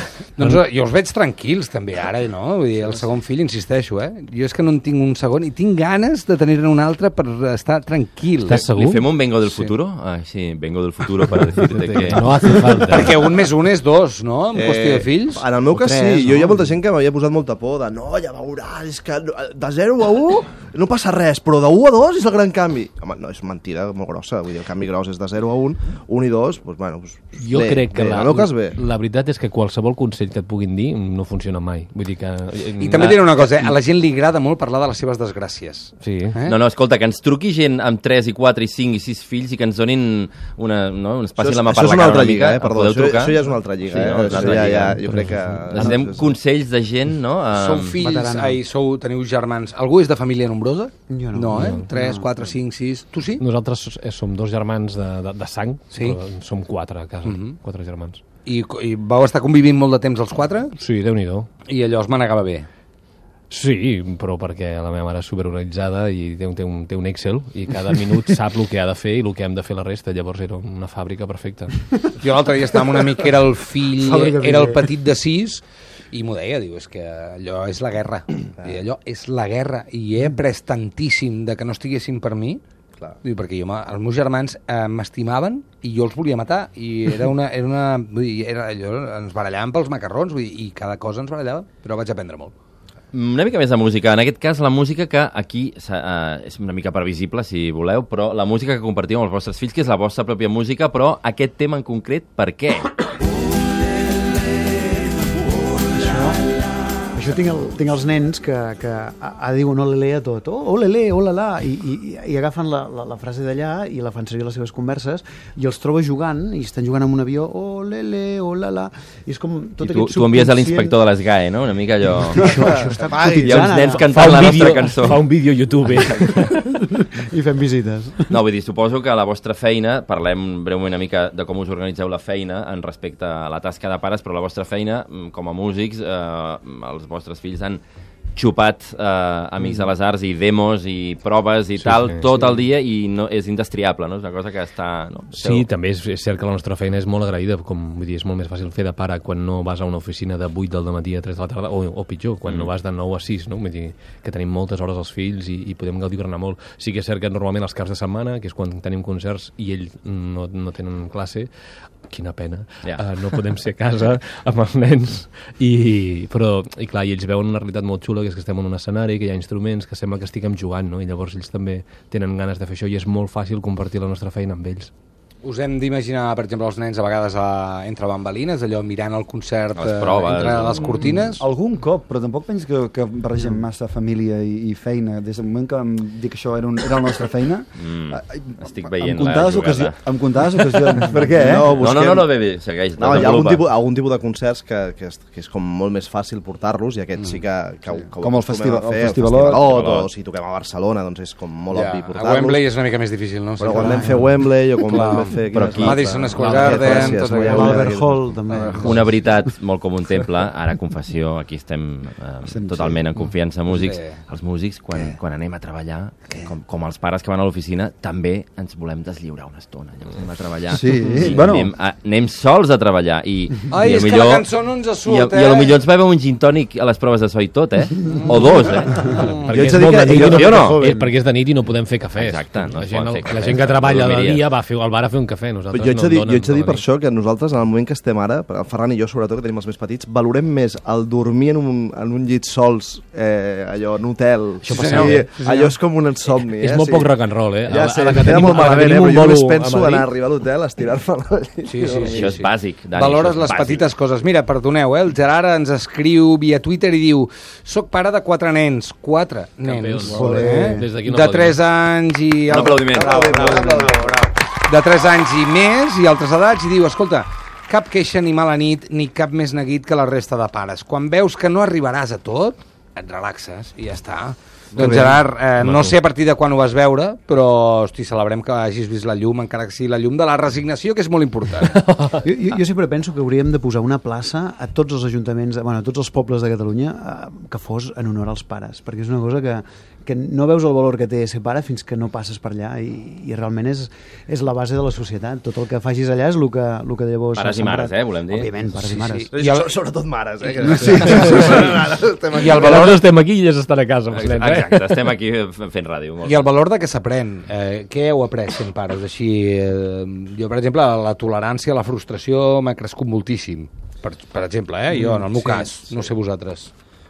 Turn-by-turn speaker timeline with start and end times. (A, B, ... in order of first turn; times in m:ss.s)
0:00.4-0:08.6 A
0:08.4-0:09.1 B
0:08.5-0:12.6 C
0:11.6-0:13.1 B
0:12.8-0:15.4 A
0:14.5-0:28.8 D
0:15.8-0:16.7 E
0:27.4-0:33.8 B
0:32.8-0:36.6 A
0:36.0-0:36.4 B
0:36.5-0:45.0 C
0:41.4-0:46.4 D
0:45.0-0:46.0 B
0:45.7-0:48.0 C
0:47.5-0:53.4 A
0:48.0-0:48.6 E
0:51.1-0:52.3 E
0:51.5-0:51.9 B
0:53.4-0:58.2 B
0:55.9-0:56.2 A
0:57.2-0:57.6 A
0:58.5-1:00.7 A
1:00.8-1:01.5 B
1:01.7-1:02.7 A
1:03.5-1:11.9 B
1:12.2-1:22.6 A
1:14.0-1:14.8 E
1:23.2-1:32.5 A
1:33.1-1:43.0 C
1:45.9-1:46.4 E
1:47.1-2:00.8 E
1:59.8-2:02.4 C
2:02.4-2:04.0 E
2:02.4-2:04.3 D
2:03.2-2:05.3 C
2:03.9-2:06.6 B
2:07.3-2:08.3 E
2:08.3-2:17.8 C
2:18.4-2:25.7 C
2:21.8-2:22.3 B
2:25.4-2:41.5 B
2:32.4-2:32.7 C
2:42.1-2:54.9 B
2:55.4-3:01.4 A
2:59.8-3:01.2 C
3:01.4-3:11.8 F
3:07.8-3:10.0 C
3:11.0-3:12.5 D
3:11.6-3:13.7 C
3:13.0-3:22.6 D
3:18.2-3:19.7 F
3:19.6-3:20.1 C
3:21.7-3:27.9 A
3:23.6-3:28.4 D
3:23.8-3:24.2 E
3:25.5-3:26.8 C
3:26.9-3:29.1 E
3:28.5-3:29.0 A
3:28.8-3:49.1 C
3:32.4-3:33.1 F
3:33.7-3:34.2 A
3:40.7-3:41.7 F
3:43.7-3:45.8 A
3:48.1-3:49.6 A
3:49.3-3:56.8 B
3:49.5-3:51.1 D
3:50.2-3:50.8 C
3:52.2-3:54.5 C
3:55.7-4:12.4 D
4:04.6-4:05.3 B
4:04.7-4:05.7 A
4:06.3-4:10.1 B
4:11.7-4:41.8 A
4:12.1-4:13.9 C
4:19.6-4:21.6 B
4:20.1-4:20.9 E
4:22.5-4:23.3 C
4:22.5-4:24.2 D
4:35.6-4:36.0 B
4:41.8-4:42.3 B
4:42.2-4:59.3 E
4:57.4-4:58.6 C
4:58.8-4:59.8 A
4:59.3-5:03.0 D
5:00.7-5:01.5 F
5:00.8-5:01.7 B
5:01.3-5:01.8 A
5:02.3-5:03.0 A
5:02.4-5:05.1 B
5:04.1-5:06.5 C
5:06.2-5:16.7 A
5:14.9-5:16.1 D